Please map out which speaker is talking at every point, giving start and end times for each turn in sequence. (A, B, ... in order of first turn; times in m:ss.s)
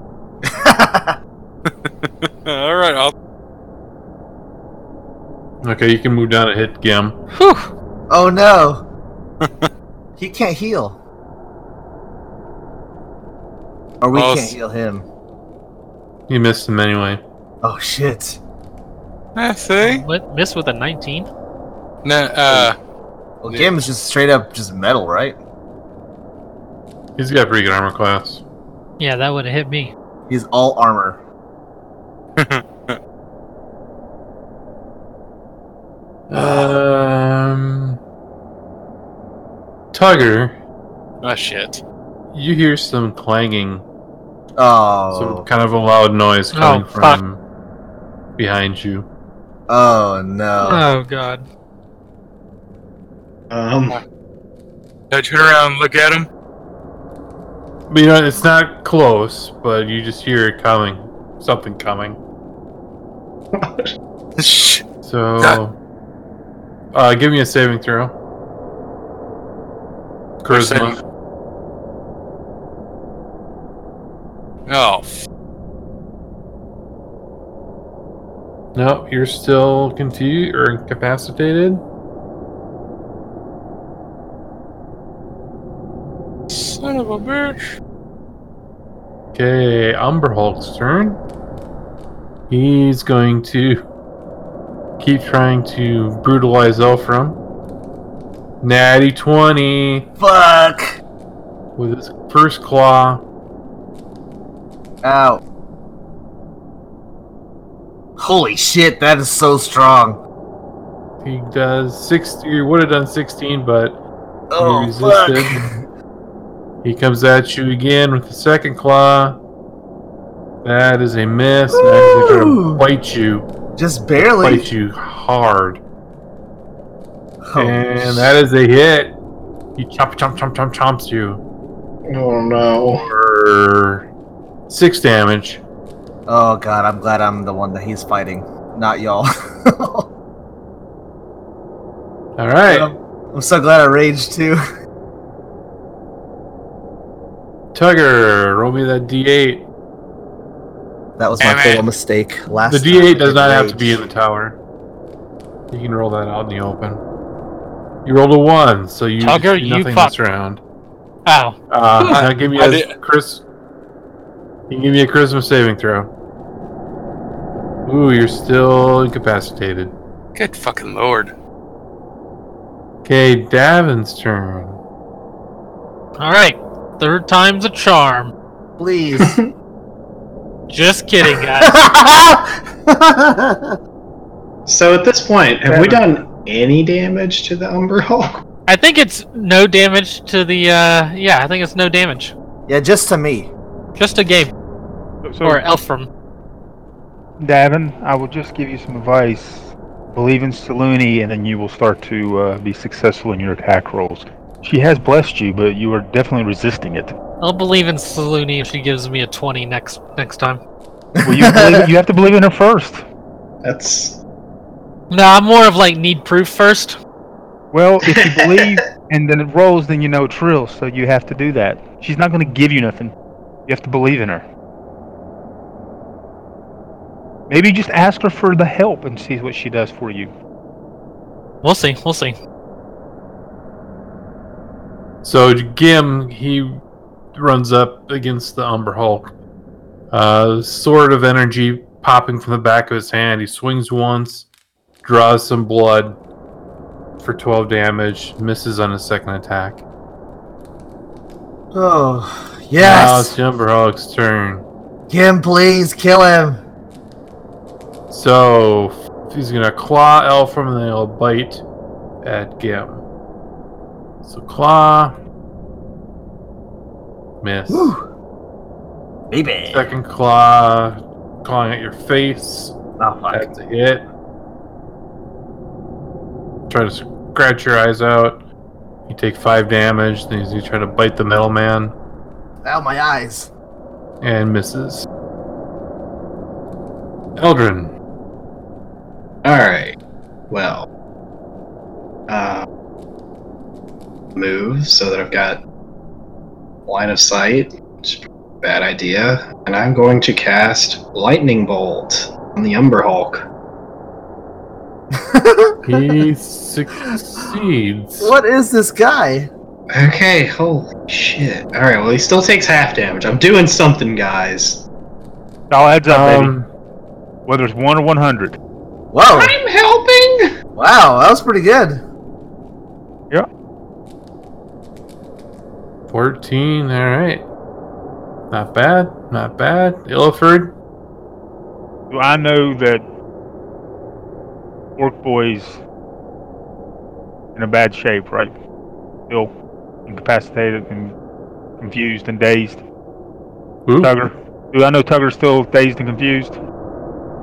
0:00.4-0:01.2 A
0:01.7-0:03.1 B
0:05.6-0:07.2 C
0:07.3-0:07.7 D
0:08.1-0:08.8 A
0:09.4-0:09.7 B
0:10.2-0:11.0 A
0:14.0-0:15.1 A
0:14.1-0:14.6 B
0:16.3-0:17.2 C
0:17.6-0:18.4 A
0:19.4-0:20.0 B
0:19.8-0:21.3 D
0:22.0-0:22.8 B
0:22.5-0:22.7 A
0:23.4-0:25.4 A
0:27.2-0:28.4 C
0:29.0-0:29.9 D
0:30.3-0:31.2 A
0:32.4-0:33.0 B
0:36.3-0:38.0 C
0:36.3-0:36.7 A
0:39.9-0:40.6 C
0:41.2-0:41.8 B
0:42.3-0:43.8 C
0:44.6-0:45.4 A
0:45.1-0:47.4 C
0:46.5-0:47.2 D
0:48.4-0:49.1 C
0:49.7-0:50.8 A
0:50.6-0:51.4 D
0:53.5-0:54.0 E
0:55.1-0:56.3 B
0:57.9-1:02.2 C
1:03.5-1:03.9 E
1:04.4-1:04.8 A
1:05.0-1:05.8 C
1:06.9-1:08.2 C
1:10.4-1:11.0 C
1:10.5-1:11.0 B
1:14.7-1:15.2 B
1:18.7-1:21.8 C
1:26.5-1:27.8 B
1:29.3-1:31.2 C
1:32.5-1:33.9 C
1:35.0-1:37.4 C
1:38.6-1:40.1 C
1:40.2-1:41.0 A
1:41.8-1:43.2 C
1:45.0-1:45.4 A
1:48.2-1:50.2 A
1:51.2-1:54.0 C
1:54.5-1:55.8 A
1:54.6-1:55.6 C
1:56.8-1:59.4 C
2:00.6-2:03.5 C
2:01.7-2:02.8 A
2:03.8-2:04.7 A
2:04.2-2:05.8 C
2:07.4-2:08.4 A
2:07.6-2:09.2 C
2:09.8-2:11.4 C
2:12.1-2:13.0 E
2:12.9-2:14.1 C
2:14.7-2:15.6 C
2:16.3-2:20.1 A
2:22.4-2:22.9 C
2:22.6-2:24.6 A
2:27.7-2:29.6 C
2:31.2-2:34.0 A
2:31.4-2:31.8 B
2:32.7-2:34.6 C
2:35.7-2:37.0 C
2:38.0-2:40.6 C
2:39.2-2:40.1 D
2:41.2-2:42.2 D
2:41.7-2:43.4 C
2:42.2-2:42.9 B
2:44.7-2:46.1 C
2:47.8-2:50.0 C
2:50.4-2:51.3 B
2:53.0-2:54.8 C
2:56.2-2:58.3 D
2:58.8-2:59.4 A
2:59.2-2:59.4 E
3:00.7-3:01.8 D
3:01.5-3:03.8 A
3:04.7-3:08.4 E
3:05.7-3:06.2 F
3:08.7-3:12.3 D
3:12.7-3:13.5 A
3:14.0-3:14.5 D
3:15.2-3:15.6 F
3:15.4-3:16.1 D
3:17.4-3:27.2 F
3:27.4-3:30.6 D
3:31.2-3:31.9 A
3:31.2-3:33.0 F
3:33.6-3:34.2 E
3:35.1-3:37.0 D
3:37.7-3:43.1 F
3:38.0-3:38.8 E
3:43.7-3:44.4 F
3:47.5-3:50.3 F
3:51.6-3:52.4 D
3:55.2-3:56.8 C
3:57.3-3:59.3 C
4:00.1-4:04.5 C
4:05.0-4:06.2 C
4:07.2-4:09.8 C
4:11.7-4:13.4 A
4:12.8-4:14.7 C
4:15.1-4:16.6 A
4:18.1-4:21.6 C
4:22.2-4:23.0 C
4:24.2-4:25.2 C
4:27.4-4:27.9 C
4:27.7-4:28.0 A
4:29.3-4:29.9 A
4:29.7-4:32.8 C
4:33.0-4:33.5 A
4:33.3-4:34.0 C
4:36.7-4:38.4 C
4:39.1-4:41.9 C
4:42.6-4:43.5 A
4:44.2-4:45.1 C
4:47.4-4:47.9 C
4:49.4-4:50.0 E
4:50.5-4:50.9 E
4:52.3-4:52.6 E
4:54.4-4:55.6 E
4:56.9-5:03.4 E
5:05.2-5:06.0 A
5:05.8-5:08.3 C
5:08.2-5:09.5 A
5:09.9-5:14.8 E
5:15.7-5:16.6 F
5:16.1-5:16.7 C
5:17.4-5:18.6 F
5:19.1-5:19.5 A
5:19.3-5:20.5 E
5:20.8-5:22.0 A
5:26.1-5:27.5 C
5:28.5-5:30.8 C
5:32.1-5:33.0 F
5:35.0-5:35.8 F
5:37.5-5:38.6 F
5:39.3-5:39.5 F
5:40.0-5:41.2 F
5:41.8-5:42.8 F
5:43.8-5:44.1 C
5:44.0-5:46.6 F